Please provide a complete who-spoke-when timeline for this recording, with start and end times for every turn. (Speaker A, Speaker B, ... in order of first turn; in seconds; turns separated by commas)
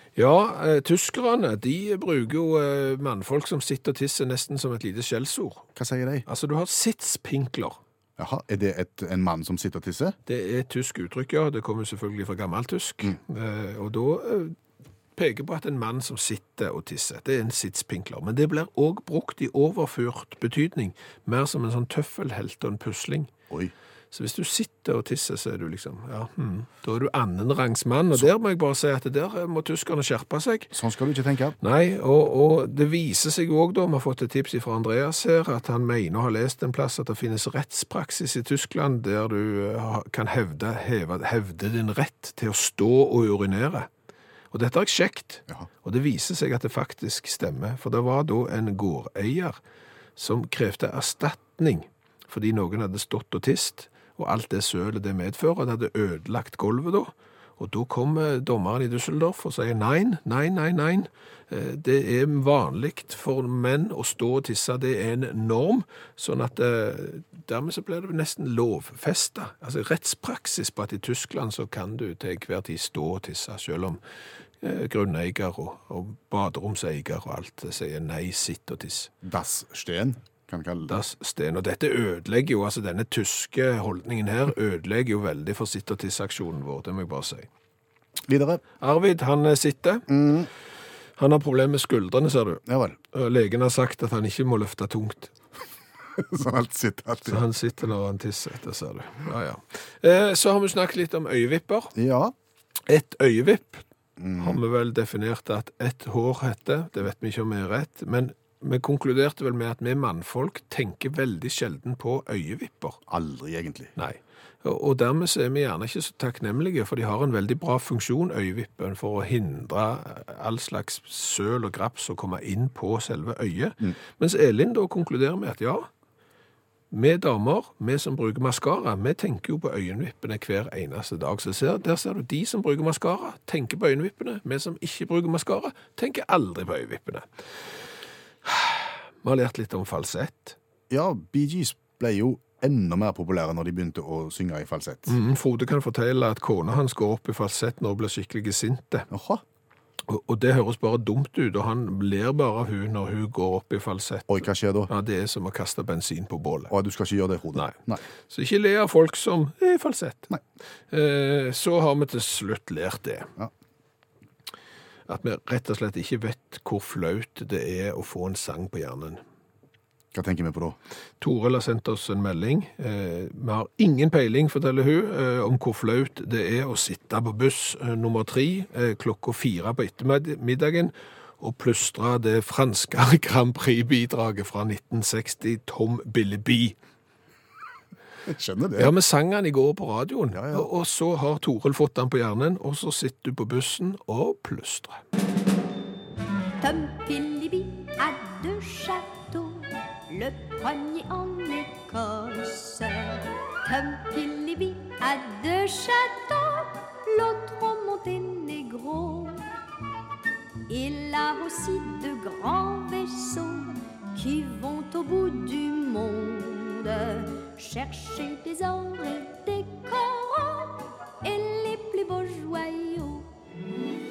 Speaker A: 0.1-5.7, Speaker B: 5.8-6.2, Speaker A: 6.2-7.8, Speaker B: 8.2-10.2, Speaker A: 10.3-14.6, Speaker A: 15.2-23.3, Speaker A: 24.1-30.7, Speaker B: 30.7-31.6, Speaker A: 31.6-43.9, Speaker A: 44.5-49.6, Speaker A: 50.1-74.0, Speaker A: 74.6-79.1, Speaker B: 79.2-81.0, Speaker A: 80.9-87.5, Speaker B: 88.2-88.6, Speaker A: 88.8-90.1, Speaker B: 90.1-90.5, Speaker A: 91.2-95.3, Speaker B: 92.7-93.0, Speaker B: 96.2-97.4, Speaker A: 97.2-101.9, Speaker B: 101.9-102.3, Speaker A: 102.9-103.8, Speaker B: 104.2-104.6, Speaker A: 104.4-113.0, Speaker B: 113.1-113.9, Speaker A: 114.0-125.9, Speaker A: 126.9-137.3, Speaker A: 138.4-140.6, Speaker B: 140.9-145.2, Speaker A: 145.1-149.1, Speaker B: 149.1-149.4, Speaker A: 150.1-154.3, Speaker B: 154.3-154.9, Speaker A: 154.9-156.7, Speaker B: 156.7-158.0, Speaker A: 158.3-160.3, Speaker A: 160.9-163.3, Speaker A: 165.1-169.2, Speaker B: 170.1-170.8, Speaker A: 171.2-186.7, Speaker B: 188.2-188.9, Speaker A: 188.8-195.0, Speaker B: 190.3-190.7, Speaker C: 196.6-209.5, Speaker C: 210.7-223.3